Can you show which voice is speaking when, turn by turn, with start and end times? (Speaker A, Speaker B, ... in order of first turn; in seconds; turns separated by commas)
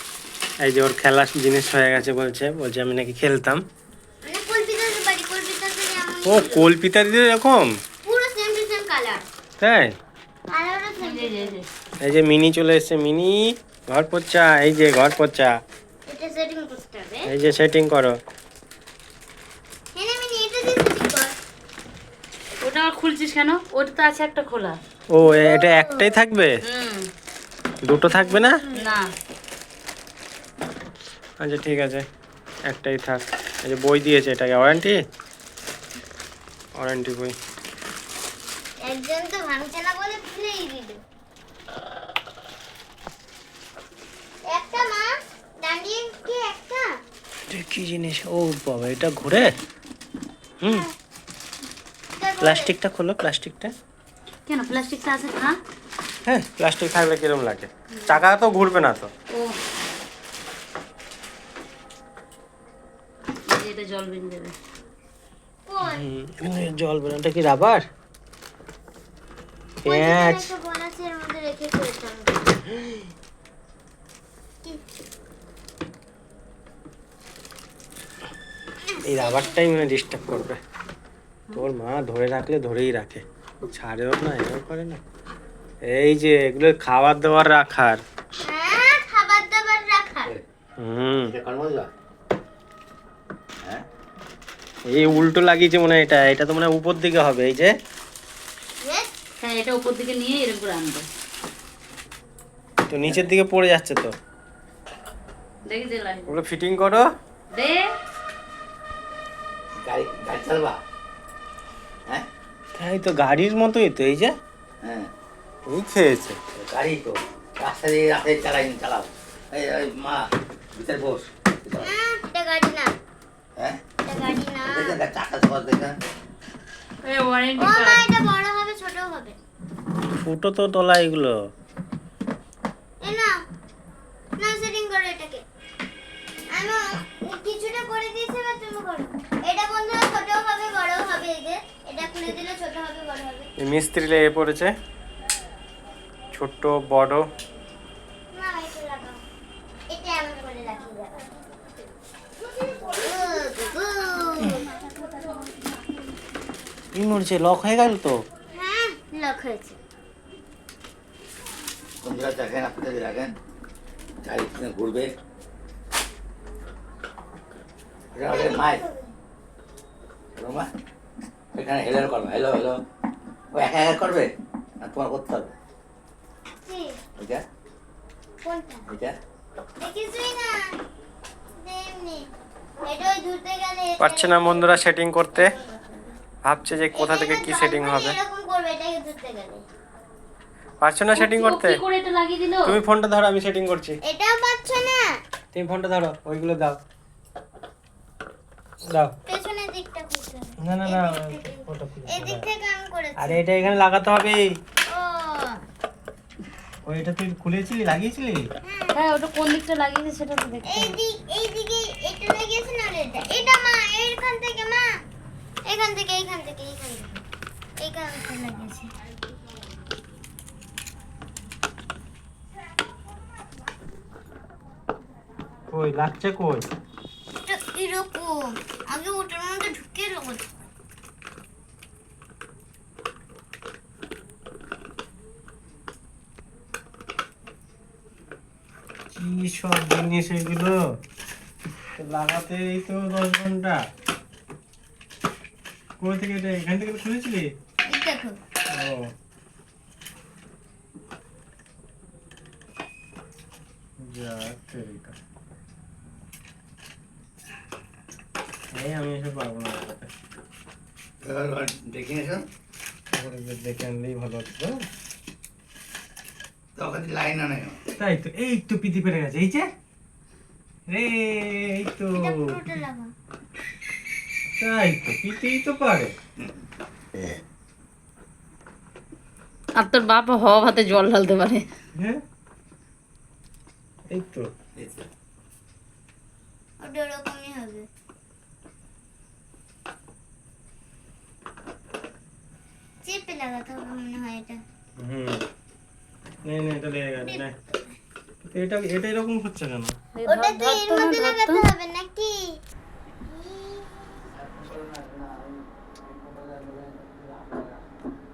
Speaker A: 0.6-3.6, Speaker B: 4.2-6.7, Speaker A: 6.2-7.8, Speaker B: 8.0-9.2, Speaker A: 9.6-9.9, Speaker B: 10.5-11.6, Speaker C: 11.0-11.7, Speaker A: 12.0-15.6, Speaker B: 16.1-17.3, Speaker A: 17.2-18.2, Speaker B: 19.9-21.4, Speaker C: 22.6-24.8, Speaker A: 25.1-26.6, Speaker B: 25.2-26.1, Speaker C: 26.6-27.1, Speaker A: 27.8-28.6, Speaker B: 28.1-28.8, Speaker C: 28.7-29.1, Speaker A: 31.4-32.0, Speaker A: 32.7-35.0, Speaker A: 36.8-37.3, Speaker B: 38.8-41.0, Speaker B: 44.4-46.9, Speaker A: 47.5-49.5, Speaker A: 50.6-50.9, Speaker B: 52.2-52.7, Speaker A: 52.4-53.7, Speaker C: 54.5-55.6, Speaker A: 56.2-59.1, Speaker C: 59.3-59.5, Speaker C: 63.5-64.5, Speaker B: 65.7-66.0, Speaker A: 65.8-67.8, Speaker A: 69.8-70.5, Speaker B: 69.8-72.5, Speaker B: 78.9-79.5, Speaker A: 79.0-80.6, Speaker A: 81.5-85.0, Speaker A: 85.9-88.0, Speaker B: 88.4-90.3, Speaker A: 90.8-91.3, Speaker D: 91.2-91.9, Speaker A: 94.9-97.7, Speaker B: 98.8-99.1, Speaker C: 99.4-101.1, Speaker A: 102.9-104.1, Speaker D: 103.0-103.3, Speaker C: 105.6-106.3, Speaker A: 106.3-107.1, Speaker C: 107.5-107.9, Speaker D: 109.8-110.8, Speaker A: 112.8-114.3, Speaker D: 114.8-115.1, Speaker A: 115.7-116.4, Speaker D: 116.5-121.9, Speaker B: 121.8-122.9, Speaker B: 124.0-125.0, Speaker D: 124.7-126.0, Speaker C: 127.0-128.0, Speaker B: 127.6-129.4, Speaker A: 130.2-131.5, Speaker B: 133.0-133.3, Speaker B: 134.4-135.5, Speaker B: 136.5-143.5, Speaker A: 143.6-144.7, Speaker A: 146.3-147.3, Speaker B: 148.3-149.2, Speaker B: 149.9-151.2, Speaker B: 152.8-154.7, Speaker A: 156.9-158.2, Speaker B: 158.5-159.8, Speaker D: 162.0-163.3, Speaker D: 164.2-165.1, Speaker D: 168.1-168.8, Speaker B: 168.3-169.1, Speaker D: 170.4-170.7, Speaker D: 171.5-172.8, Speaker D: 173.5-175.5, Speaker B: 176.6-177.0, Speaker D: 177.2-177.4, Speaker B: 178.4-178.9, Speaker D: 178.9-179.2, Speaker B: 179.8-180.8, Speaker B: 181.6-182.3, Speaker B: 182.8-186.2, Speaker A: 184.0-185.5, Speaker A: 186.4-188.2, Speaker B: 186.9-189.7, Speaker A: 190.8-191.8, Speaker C: 191.1-192.8, Speaker A: 192.7-194.0, Speaker B: 194.0-195.2, Speaker A: 195.5-196.8, Speaker A: 198.9-199.1, Speaker B: 199.3-203.4, Speaker A: 200.6-202.4, Speaker A: 203.2-204.5, Speaker B: 204.9-205.6, Speaker A: 206.8-208.5, Speaker B: 208.6-209.0, Speaker C: 208.9-211.0, Speaker B: 210.7-215.0, Speaker B: 215.7-217.2, Speaker B: 217.8-218.9, Speaker A: 225.7-226.7, Speaker B: 227.3-230.5, Speaker A: 239.1-240.8, Speaker A: 242.0-243.8, Speaker A: 246.0-247.5, Speaker B: 247.9-248.4, Speaker A: 248.7-249.1, Speaker A: 254.0-255.2, Speaker A: 258.7-260.1, Speaker D: 261.2-262.4, Speaker A: 263.1-264.9, Speaker D: 266.8-267.8, Speaker A: 268.0-269.7, Speaker A: 270.9-272.6, Speaker B: 272.1-273.1, Speaker A: 274.6-276.1, Speaker C: 279.8-281.6, Speaker A: 284.1-284.5, Speaker D: 284.8-285.1, Speaker B: 286.8-287.9, Speaker B: 293.0-294.6, Speaker A: 295.0-295.4, Speaker A: 296.4-297.5, Speaker A: 298.4-299.9, Speaker C: 300.1-301.6, Speaker B: 300.2-302.6, Speaker B: 303.3-304.3, Speaker D: 304.3-307.8